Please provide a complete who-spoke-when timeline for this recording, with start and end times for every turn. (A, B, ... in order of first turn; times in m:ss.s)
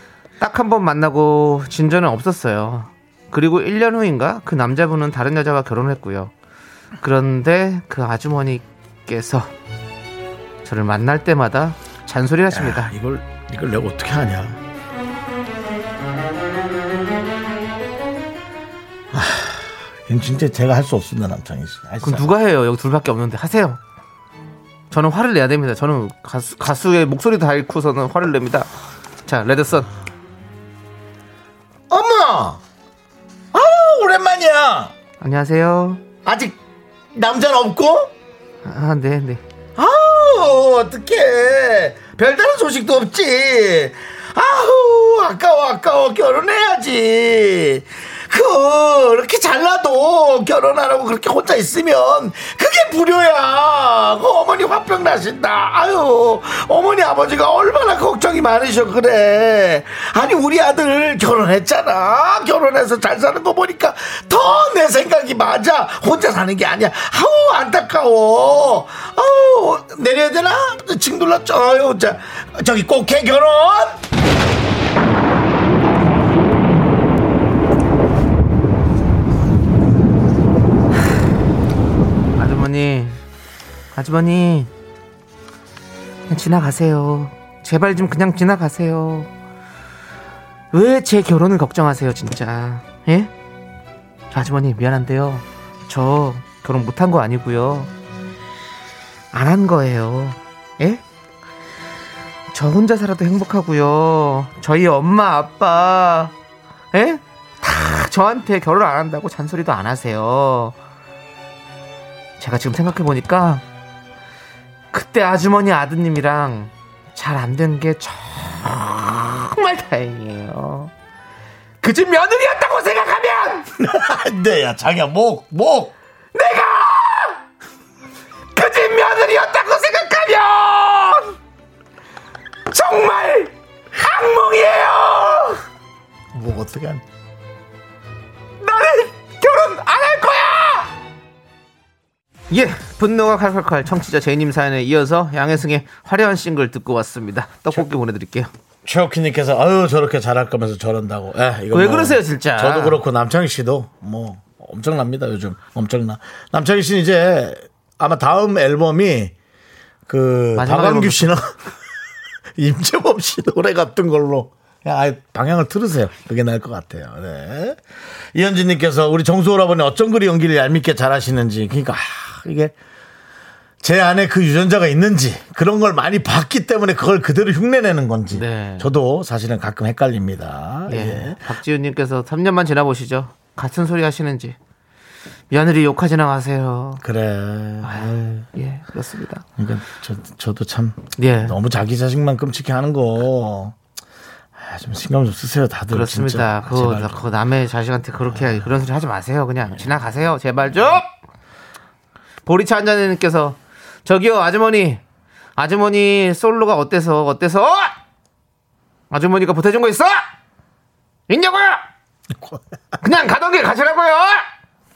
0:00.4-0:06.3 A
0:07.0-0:09.5 A
0:10.6-0:12.9 A
0:12.5-0:14.6 B
0:19.1-0:22.3 B
0:22.0-0:23.8 A
0:24.9-0:28.7 A
0:29.2-0:29.9 A
0:31.9-0:32.6 B
0:33.5-0:34.9 B
0:35.2-0:36.0 A
0:36.2-0:36.6 B
0:37.1-0:38.1 B
0:38.6-0:39.4 A
0:39.8-1:14.0 B
1:22.4-1:23.2 A
1:23.9-1:24.7 A
1:26.3-1:29.3 A
1:30.7-1:33.3 A
1:34.3-1:37.9 A
1:39.3-1:41.0 A
1:42.5-1:46.3 A
1:46.9-1:50.8 A
1:52.4-1:53.6 A
1:54.9-2:00.9 A
2:01.8-2:03.7 A
2:03.8-2:05.9 B
2:06.3-2:07.4 A
2:08.5-2:11.4 A
2:12.7-2:15.6 A
2:16.3-2:17.0 B
2:18.6-2:20.9 A
2:22.5-2:28.5 A
2:28.8-2:39.3 B
2:31.7-2:33.0 A
2:40.1-2:41.5 B
2:40.6-2:41.4 A
2:42.6-2:47.8 B
2:48.3-2:52.7 B
2:53.8-3:01.4 B
2:58.3-2:58.9 A
3:00.9-3:04.6 A
3:05.5-3:07.0 A
3:07.0-3:08.5 B
3:07.8-3:09.4 A
3:09.6-3:13.8 B
3:11.2-3:11.6 A
3:14.6-3:17.2 B
3:15.9-3:21.1 A
3:22.4-3:25.0 A
3:25.6-3:27.9 A
3:29.1-3:30.2 A
3:31.3-3:31.8 A
3:33.0-3:34.5 A